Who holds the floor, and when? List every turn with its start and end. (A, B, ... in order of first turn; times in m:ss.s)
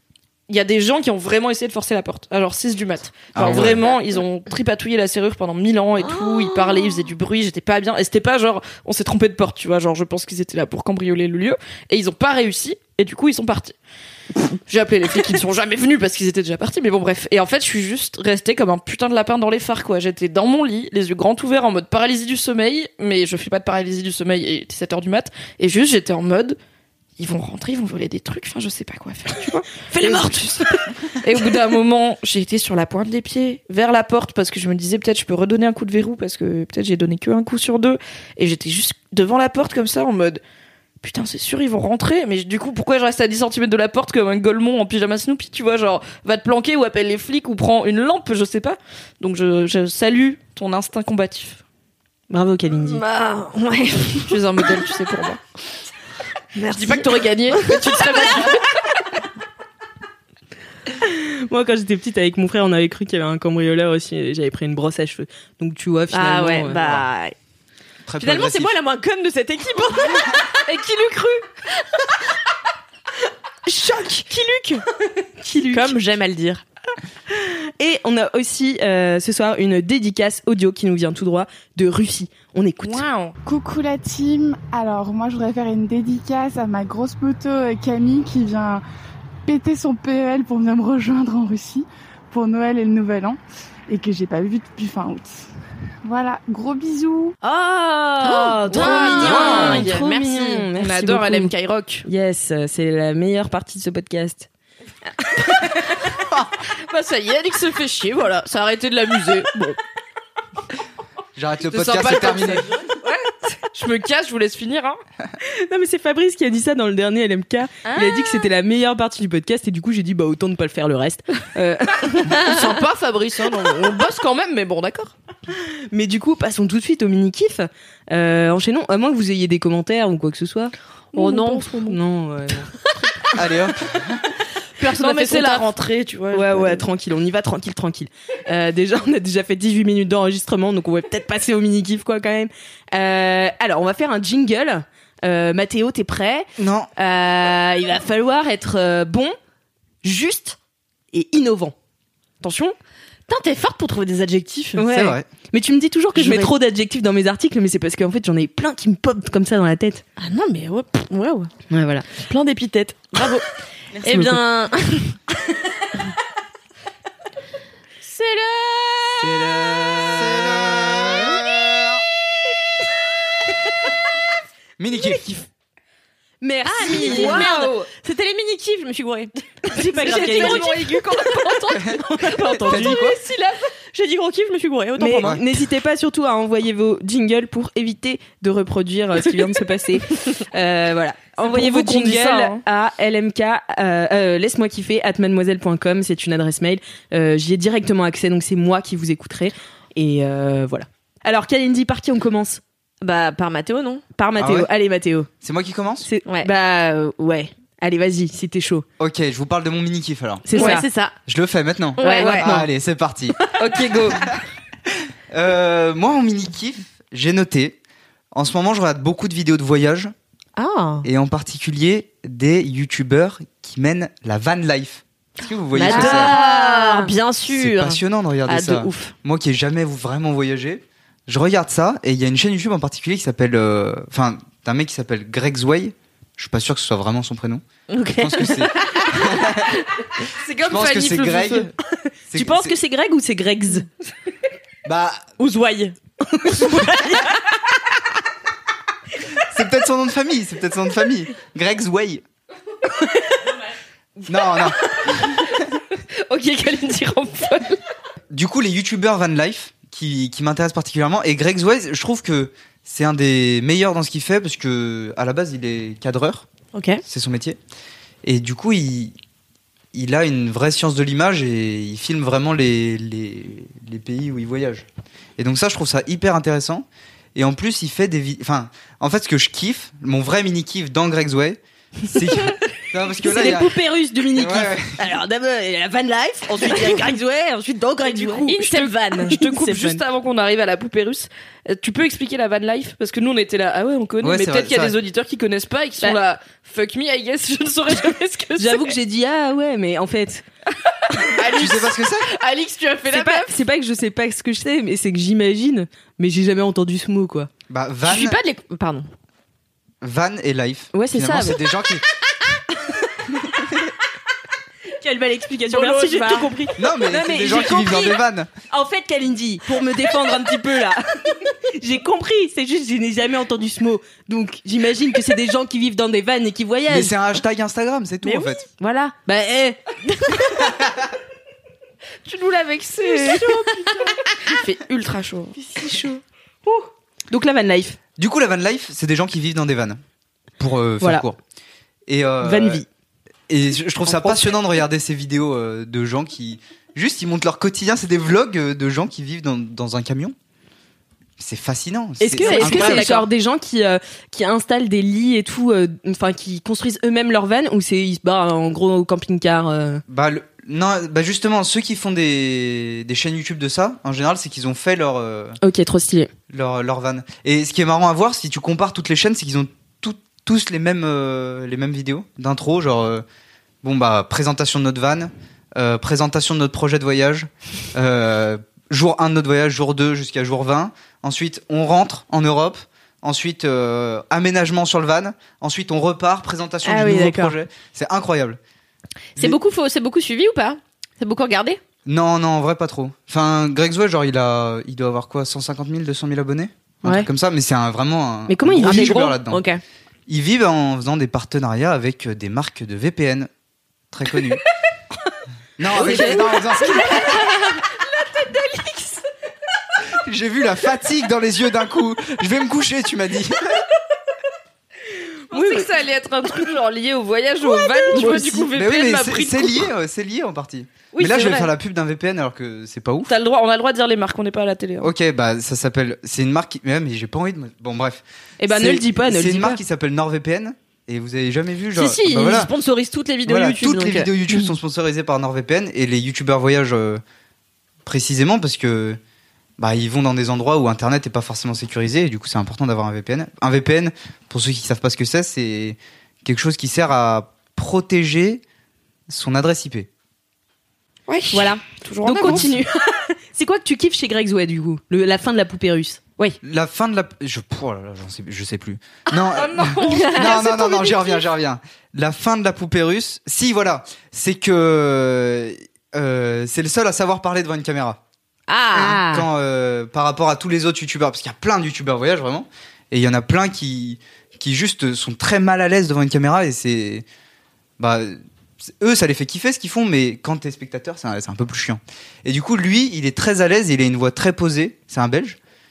0:00.5-0:13.7 A
0:03.3-0:03.8 B
0:14.7-0:26.6 A
0:27.2-0:40.4 A
0:29.9-0:30.9 C
0:41.0-0:51.6 A
0:52.3-0:53.0 D
0:52.8-0:54.4 C
0:54.3-0:55.4 A
0:56.5-0:58.4 C
0:56.7-0:58.7 A
1:00.9-1:07.0 D
1:06.1-1:07.3 C
1:08.0-1:08.8 B
1:08.2-1:10.4 C
1:10.6-1:11.4 A
1:14.1-1:14.8 C
1:15.4-1:16.0 D
1:15.7-1:16.6 C
1:17.3-1:23.1 D
1:22.8-1:23.3 A
1:23.4-1:28.8 E
1:29.4-1:35.4 E
1:36.0-1:37.4 E
1:37.4-1:41.5 D
1:38.2-1:40.7 C
1:38.7-1:40.0 A
1:39.2-1:39.9 B
1:40.8-1:42.1 A
1:42.0-1:44.5 D
1:45.5-1:45.8 D
1:46.9-1:49.8 A
1:51.4-1:52.7 B
1:51.7-1:55.0 A
1:55.4-2:01.5 D
1:57.9-1:58.4 A
2:01.6-2:05.1 A
2:05.9-2:12.7 D
2:11.1-2:11.9 C
2:11.2-2:12.0 A
2:13.3-2:14.2 B
2:14.8-2:15.6 C
2:14.8-2:16.9 A
2:16.3-2:29.4 D
2:26.6-2:26.9 B
2:30.0-2:30.6 D
2:31.1-2:31.7 D
2:32.4-2:32.8 D
2:33.3-2:34.8 C
2:34.8-2:40.0 D
2:34.8-2:35.3 B
2:36.1-2:36.5 C
2:40.2-2:41.5 C
2:41.7-2:42.1 D
2:42.1-2:43.5 C
2:44.0-2:44.4 D
2:44.0-2:45.2 C
2:48.0-2:49.4 C
2:49.2-2:51.4 D
2:49.9-2:52.0 B
2:54.8-2:55.4 B
2:56.4-2:57.5 D
2:56.6-3:00.8 C
2:56.8-2:57.9 A
2:59.7-3:01.0 D
3:00.0-3:03.7 A
3:02.1-3:03.0 D
3:02.6-3:03.2 B
3:03.9-3:05.4 C
3:05.0-3:22.6 D
3:11.4-3:12.6 A
3:23.0-3:24.0 C
3:24.1-3:25.3 D
3:24.4-3:24.7 B
3:25.4-3:26.1 B
3:26.0-3:28.8 D
3:26.2-3:26.5 C
3:29.0-3:30.7 B
3:30.4-3:30.9 D
3:30.5-3:31.2 C
3:31.2-3:33.4 B
3:32.0-3:32.5 C
3:32.0-3:32.7 D
3:32.1-3:32.4 A
3:33.6-3:34.3 A
3:35.3-3:37.8 B
3:38.3-3:40.1 B
3:40.6-3:41.1 C
3:41.0-3:46.4 B
3:45.7-3:49.1 C
3:45.8-3:47.1 D
3:47.5-3:57.6 B
3:57.9-3:59.2 C
3:58.2-3:59.8 B
4:00.4-4:01.7 A
4:00.6-4:01.7 B
4:02.3-4:02.8 B
4:02.3-4:03.8 D
4:04.8-4:05.3 B
4:05.4-4:06.0 C
4:06.2-4:07.4 D
4:09.4-4:12.2 B
4:14.3-4:15.5 B
4:16.2-4:17.8 A
4:18.3-4:26.4 B
4:26.7-4:27.0 C
4:27.0-4:27.6 B
4:28.2-4:29.1 B
4:29.9-4:34.8 B
4:35.4-4:45.0 B
4:43.2-4:50.0 D
4:48.2-4:48.6 C
4:48.5-4:59.0 A
4:54.2-4:55.0 B
4:58.6-5:00.4 D
5:01.0-5:03.5 A
5:01.5-5:02.3 B
5:03.1-5:07.5 D
5:07.7-5:08.4 B
5:08.0-5:09.1 C
5:10.0-5:12.0 B
5:10.9-5:11.6 D
5:15.0-5:27.2 D
5:15.7-5:16.5 C
5:16.8-5:18.5 B
5:26.9-5:28.6 B
5:28.2-5:30.7 D
5:32.2-5:35.6 A
5:33.0-5:33.9 D
5:35.6-5:38.0 D
5:38.2-5:40.0 B
5:40.6-5:41.4 B
5:42.1-5:42.8 B
5:42.4-5:42.8 D
5:43.5-5:50.3 B
5:44.0-5:44.5 D
5:51.4-5:53.0 B
5:52.2-6:00.0 D
5:52.4-5:53.2 C
6:00.1-6:05.6 B
6:05.6-6:06.3 D
6:06.5-6:13.2 B
6:13.8-6:28.6 B
6:26.8-6:27.5 D
6:29.4-6:31.8 C
6:32.0-6:39.6 B
6:38.5-6:39.8 D
6:40.3-6:43.5 B
6:44.1-6:44.6 B
6:45.8-6:47.6 B
6:45.9-6:47.5 D
6:48.4-6:49.2 D
6:50.1-6:53.8 B
6:55.5-6:59.9 A
6:55.5-6:55.8 D
6:57.7-6:58.7 D
6:58.7-7:03.3 B
7:01.1-7:01.7 A
7:03.3-7:05.1 A
7:05.0-7:12.7 B
7:08.6-7:09.8 D
7:11.9-7:14.3 C
7:13.4-7:17.2 B
7:18.0-7:19.2 B
7:19.8-7:28.6 B
7:29.3-7:30.1 B
7:31.3-7:32.7 A
7:31.5-7:36.6 D
7:32.4-7:32.7 B
7:36.6-7:48.2 B
7:39.5-7:41.3 A
7:48.7-7:49.4 C
7:48.9-7:49.2 D
7:49.0-7:57.2 B
7:58.0-8:05.6 B